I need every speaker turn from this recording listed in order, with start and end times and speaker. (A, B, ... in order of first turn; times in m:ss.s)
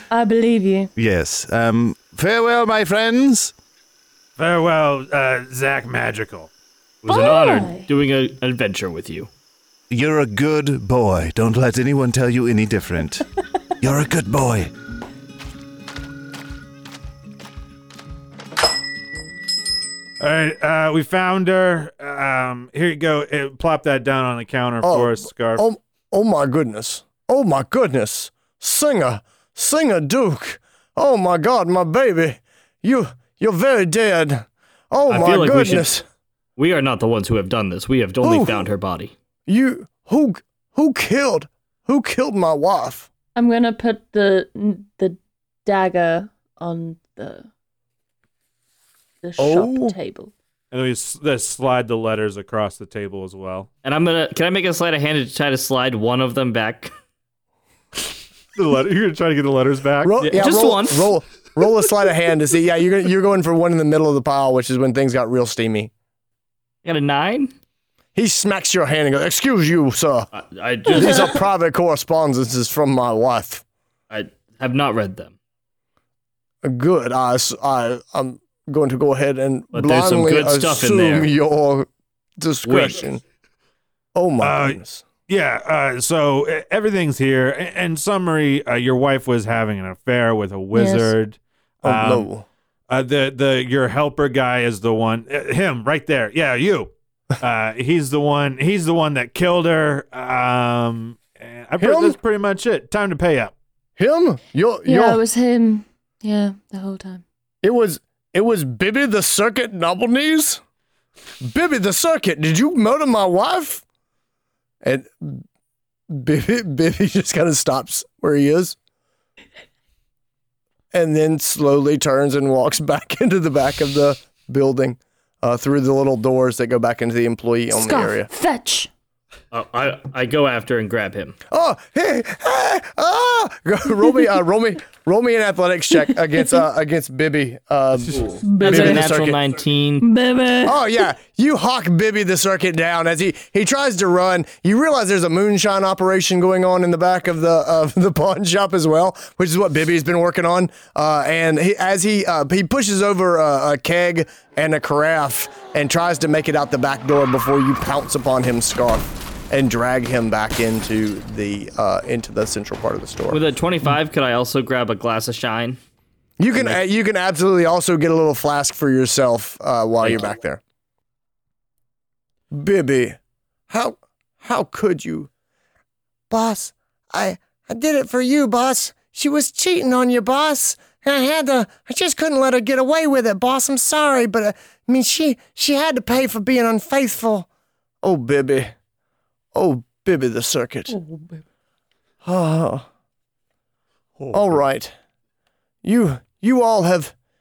0:00.1-0:00.9 A
0:01.0-0:03.5 B
0:04.4-0:06.5 C
0:07.0-0:09.3 D
0:07.1-0:07.9 A
0:09.9-0:13.2 B
0:13.8-0:14.7 B
0:20.2-0:25.6 C
0:24.8-0:36.0 E
0:35.1-0:35.9 D
0:36.6-0:39.1 D
0:38.2-0:38.7 E
0:39.5-0:43.1 E
0:43.3-0:47.5 A
0:49.2-0:50.3 A
0:49.4-0:50.0 E
0:50.7-0:53.7 C
0:53.8-0:56.9 D
0:58.5-1:00.2 C
1:00.0-1:05.9 E
1:00.2-1:01.1 D
1:06.8-1:07.5 D
1:08.1-1:10.3 E
1:10.3-1:11.4 D
1:10.9-1:13.6 E
1:14.1-1:15.3 D
1:16.6-1:21.9 E
1:19.7-1:21.3 D
1:22.4-1:23.2 E
1:22.6-1:23.0 D
1:24.1-1:25.0 E
1:24.4-1:32.3 C
1:30.7-1:31.1 A
1:31.8-1:32.4 E
1:32.9-1:43.5 C
1:41.8-1:42.2 E
1:44.0-1:45.2 E
1:44.9-1:47.2 A
1:47.6-1:50.6 E
1:51.4-1:53.8 E
1:54.8-1:55.4 E
1:56.1-1:58.8 E
2:00.9-2:08.3 E
2:07.7-2:08.9 A
2:09.5-2:11.4 D
2:11.5-2:19.4 E
2:18.1-2:20.1 D
2:18.4-2:19.1 A
2:20.0-2:20.9 A
2:20.6-2:43.4 E
2:43.3-2:45.8 D
2:46.4-2:50.6 E
2:52.5-2:53.2 E
2:53.7-2:55.3 E
2:56.3-3:07.5 E
3:08.0-3:08.7 E
3:09.5-3:11.0 E
3:10.9-3:11.4 A
3:12.2-3:12.9 E
3:14.3-3:14.9 E
3:15.8-3:17.1 E